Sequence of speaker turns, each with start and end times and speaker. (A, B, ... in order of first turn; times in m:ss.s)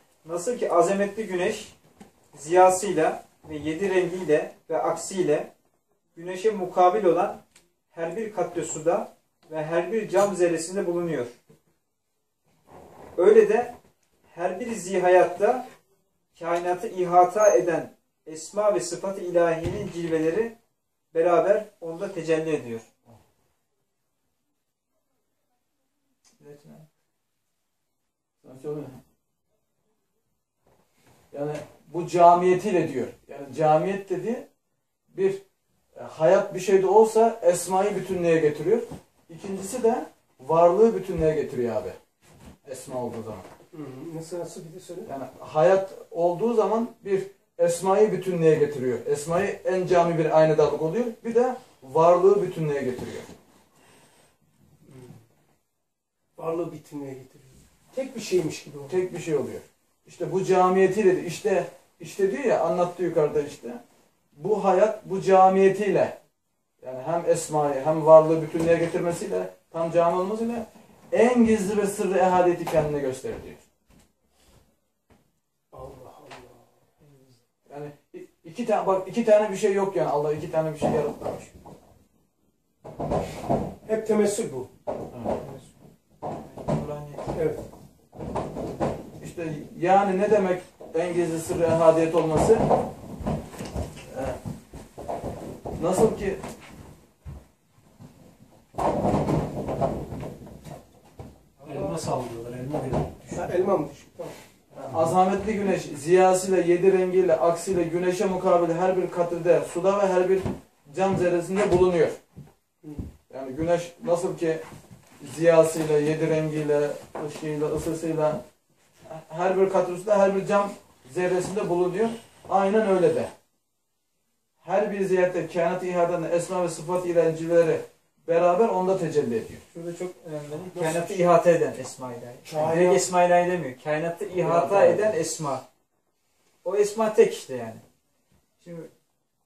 0:00.2-0:01.8 A
0:02.3-0:05.5 A
0:06.2-0:07.4 A
0:07.9-0:11.4 A
0:13.2-0:13.7 A
0:14.3-0:15.6 A
0:16.4-0:20.5 A
0:21.1-0:22.9 A
0:26.4-0:26.9 A
0:28.4-0:29.0 B
0:31.3-0:34.4 B
0:35.1-0:35.4 B
0:35.9-0:42.0 B
0:42.6-0:43.5 B
0:43.7-0:45.1 C
0:45.1-0:53.3 B
0:54.8-0:55.2 C
0:56.4-0:59.0 C
0:58.9-1:03.8 B
1:04.4-1:06.2 B
1:06.8-1:13.6 B
1:15.7-1:16.7 C
1:17.0-1:17.4 A
1:17.7-1:21.5 B
1:23.9-1:24.7 C
1:25.1-1:25.4 B
1:25.4-1:25.8 A
1:26.4-1:27.4 A
1:27.4-1:27.6 C
1:29.2-1:32.7 B
1:34.1-1:34.4 B
1:35.8-1:36.4 B
1:41.6-1:43.6 D
1:41.7-1:42.0 C
1:43.3-1:44.4 C
1:44.7-1:52.2 B
1:52.8-1:53.1 C
1:53.3-1:54.6 B
1:55.2-1:58.4 B
1:59.0-2:03.3 B
2:04.6-2:09.6 B
2:09.7-2:15.6 A
2:10.7-2:11.3 C
2:12.5-2:13.0 B
2:12.5-2:12.8 C
2:14.4-2:15.2 B
2:16.6-2:17.8 A
2:18.6-2:18.9 A